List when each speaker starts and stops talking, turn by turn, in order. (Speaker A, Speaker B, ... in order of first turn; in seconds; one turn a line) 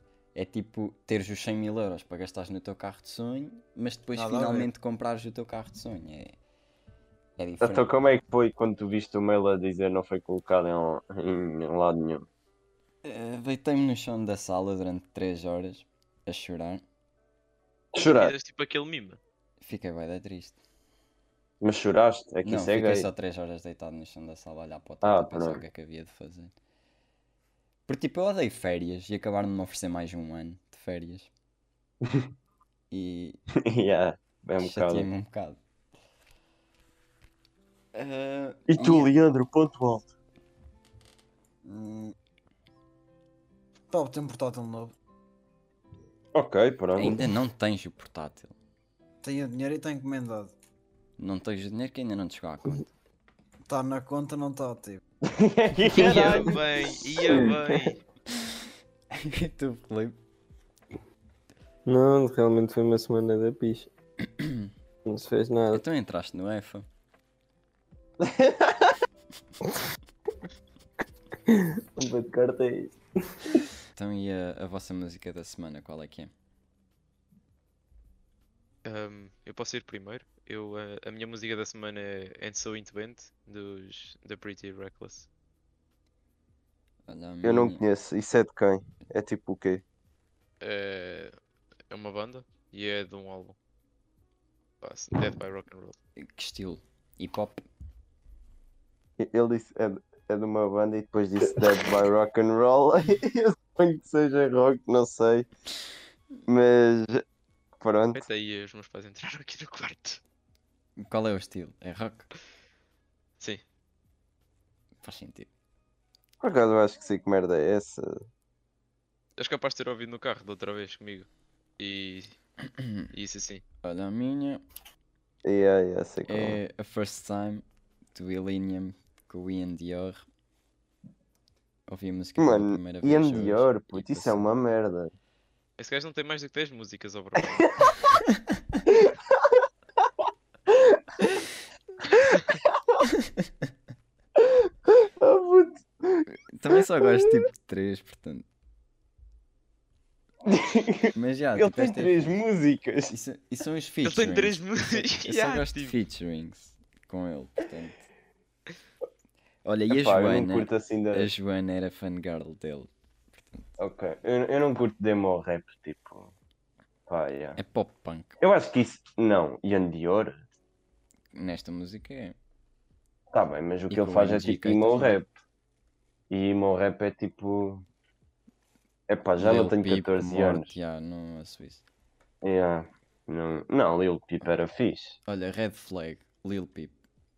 Speaker A: 0.3-6.3
Speaker B: 4.1-4.7
Speaker A: 7.4-7.9
Speaker C: 7.6-12.3
Speaker A: 13.0-16.8
Speaker C: 17.9-18.3
Speaker D: 18.0-19.2
Speaker A: 19.6-20.6
Speaker C: 21.6-23.1
Speaker A: 22.4-26.5
Speaker C: 25.0-25.6
Speaker A: 27.9-31.3
Speaker A: 32.9-33.4
Speaker C: 33.6-35.1
Speaker A: 34.6-35.6
Speaker A: 37.9-39.1
Speaker C: 38.7-40.1
Speaker B: 41.6-42.1
Speaker B: 43.9-45.0
Speaker C: 46.3-47.3
Speaker A: 47.0-48.5
Speaker B: 49.2-50.5
Speaker A: 51.2-52.9
Speaker B: 53.7-55.0
Speaker C: 55.2-56.6
Speaker D: 55.9-58.0
Speaker E: 55.9-57.9
Speaker A: 59.1-60.2
Speaker E: 61.9-63.9
Speaker A: 64.2-64.7
Speaker E: 65.0-65.8
Speaker A: 65.7-66.9
Speaker C: 68.2-68.9
Speaker E: 71.5-73.6
Speaker A: 74.0-76.3
Speaker D: 78.8-85.3
Speaker A: 87.1-87.8
Speaker C: 87.4-89.8
Speaker D: 90.6-91.3
Speaker D: 91.9-93.6
Speaker D: 94.8-96.0
Speaker A: 96.2-97.6
Speaker C: 99.2-105.5
Speaker C: 106.5-107.2
Speaker C: 107.8-108.2
Speaker D: 108.1-110.2
Speaker A: 111.0-112.3
Speaker A: 115.0-115.5
Speaker C: 116.4-118.2
Speaker D: 119.4-121.3
Speaker D: 121.8-122.4
Speaker A: 122.6-123.1
Speaker D: 123.1-123.6
Speaker A: 123.8-124.6
Speaker C: 125.5-126.6
Speaker A: 126.3-130.2
Speaker A: 131.9-134.5
Speaker C: 132.4-135.1
Speaker D: 135.8-137.9
Speaker A: 138.0-138.8
Speaker A: 143.1-143.7
Speaker C: 145.2-145.7
Speaker A: 146.3-148.5
Speaker C: 150.5-153.1
Speaker A: 151.1-152.4
Speaker A: 153.1-158.0
Speaker D: 154.0-156.0
Speaker A: 159.7-163.7
Speaker C: 159.9-161.3
Speaker C: 163.8-166.3
Speaker C: 167.1-167.6
Speaker A: 167.6-168.4
Speaker C: 168.4-170.4
Speaker A: 171.3-172.4
Speaker C: 173.3-175.3
Speaker A: 173.9-175.2
Speaker C: 176.3-177.8
Speaker C: 179.1-180.7
Speaker A: 179.4-181.8
Speaker C: 182.4-185.2
Speaker A: 185.3-187.0